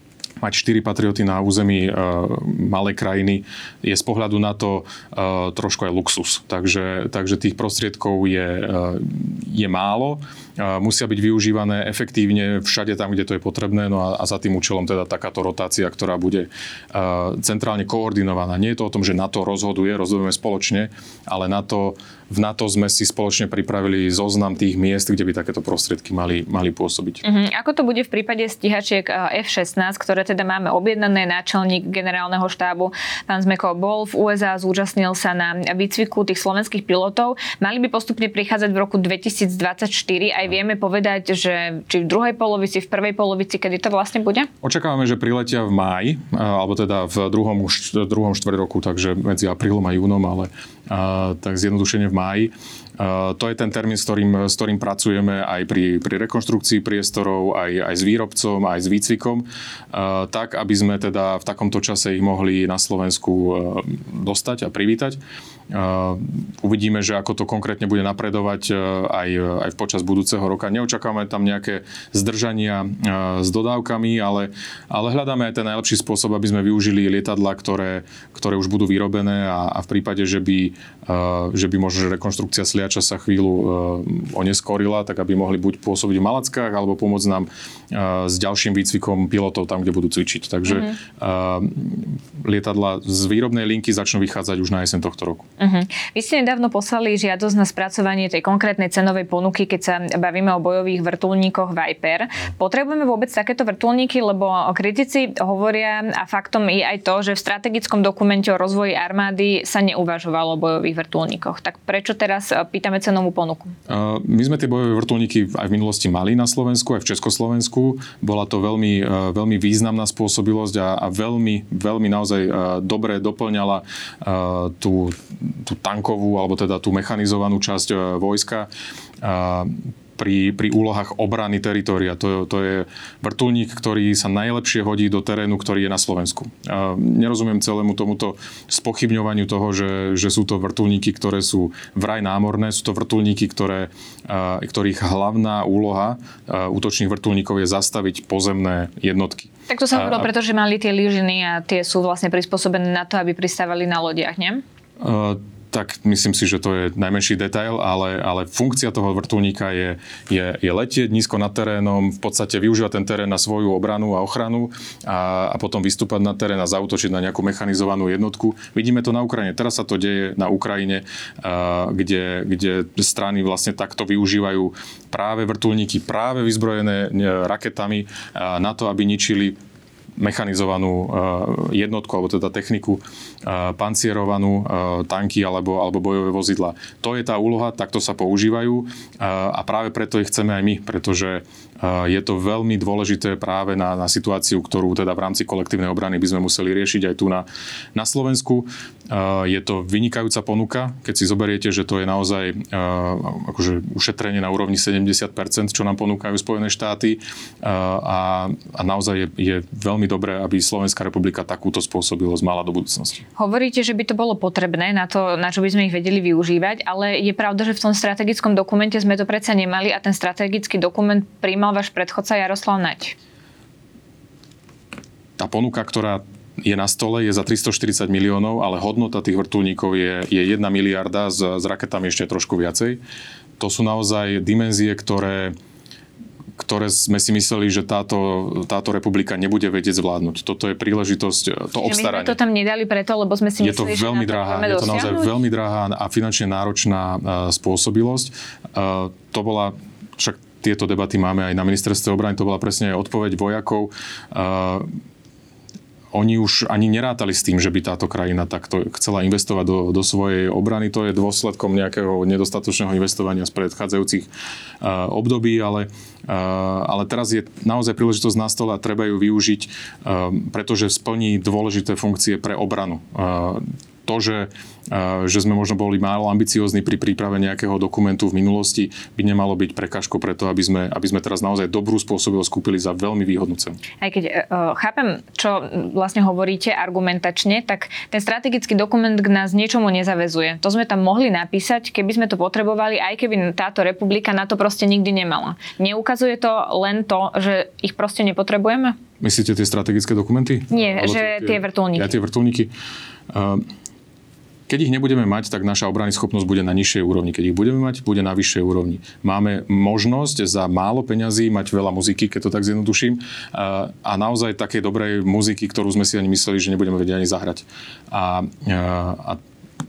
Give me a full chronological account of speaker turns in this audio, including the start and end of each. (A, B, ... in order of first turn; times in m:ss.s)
0:00.4-0:27.2 A
0:27.2-0:44.5 B
0:44.6-1:35.5 A
1:30.7-1:31.0 B
1:35.6-1:53.7 B
1:53.9-2:08.7 A
2:09.2-2:30.3 A
2:29.7-2:34.6 B
2:35.0-2:59.6 A
3:00.2-3:33.3 A
3:33.4-3:43.2 B
3:45.4-3:53.0 A
3:53.6-3:55.5 A
3:56.6-4:02.4 A
4:01.8-4:05.3 B
4:03.6-4:14.9 A
4:16.1-4:24.3 A
4:24.8-4:43.8 A
4:44.0-4:59.0 B
4:59.2-5:02.7 A
5:00.7-5:02.1 B
5:03.3-5:03.7 A
5:04.7-5:19.4 A